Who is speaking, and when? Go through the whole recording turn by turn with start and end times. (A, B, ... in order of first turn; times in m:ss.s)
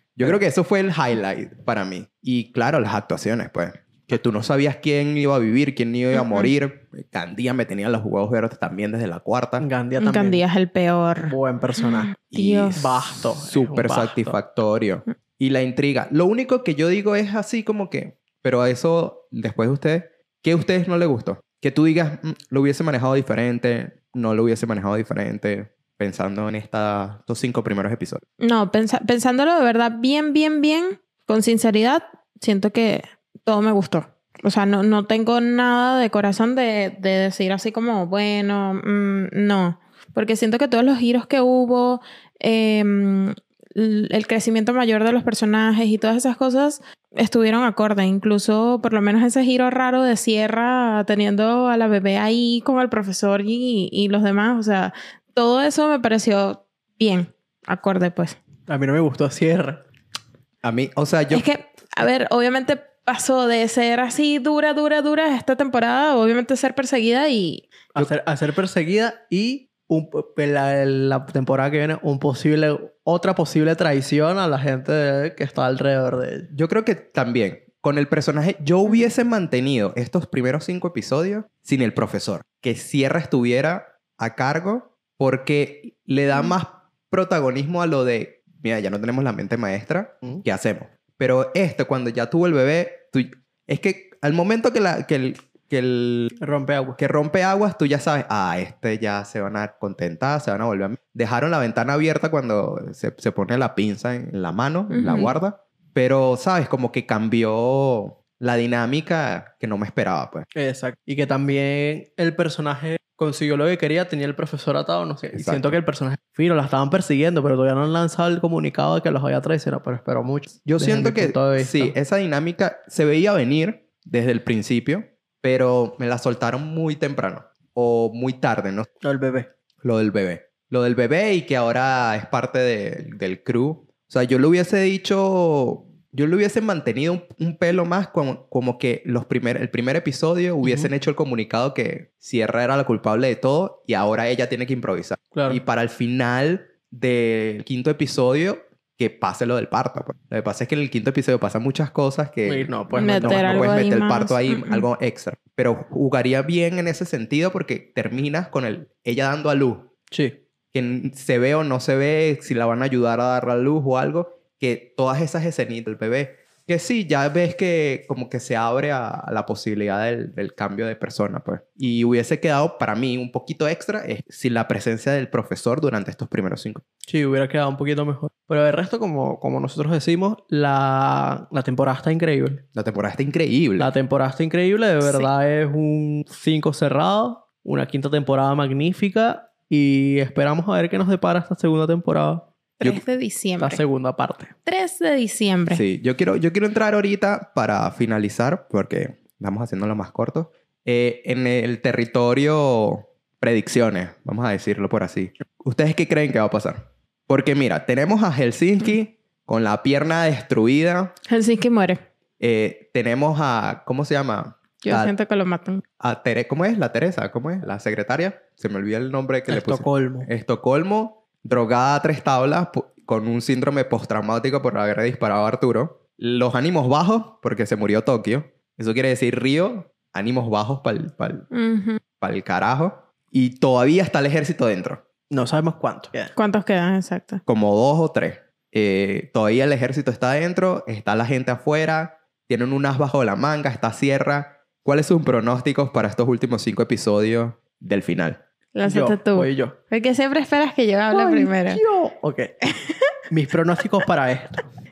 0:00.2-0:09.7 A
0:06.1-0:06.5 B
0:09.6-0:10.4 C
0:10.0-0:12.9 B
0:11.2-0:12.2 C
0:12.3-0:28.2 A
0:12.8-0:14.4 C
0:28.4-0:58.4 B
0:58.7-0:59.8 C
1:00.6-1:01.5 A
1:01.3-1:07.7 B
1:08.0-1:16.5 C
1:16.5-1:36.4 A
1:36.4-1:37.0 C
1:37.0-1:50.5 A
1:44.9-1:45.3 B
1:50.6-2:02.0 C
1:55.4-1:55.8 A
2:00.6-2:08.9 A
2:09.0-2:09.5 C
2:09.8-2:39.9 A
2:20.6-2:20.9 C
2:25.3-2:25.6 C
2:32.5-2:33.8 C
2:32.9-2:34.8 B
2:40.1-2:40.4 C
2:40.7-2:56.8 A
2:57.1-3:02.6 C
3:02.8-3:03.9 A
3:03.8-3:12.5 C
3:05.0-3:05.3 B
3:12.8-3:13.8 B
3:13.6-3:14.5 C
3:14.6-3:15.8 B
3:15.7-3:31.1 A
3:31.3-3:32.0 B
3:32.4-3:35.1 A
3:34.8-3:35.8 B
3:36.0-3:51.5 A
3:39.5-3:40.3 C
3:51.5-3:52.0 B
3:52.2-3:55.0 A
3:55.3-3:56.3 C
3:56.4-3:57.4 B
3:57.5-4:08.4 A
4:08.8-4:11.8 B
4:08.8-4:09.8 C
4:11.1-4:12.5 C
4:12.7-4:13.1 B
4:13.3-4:14.7 C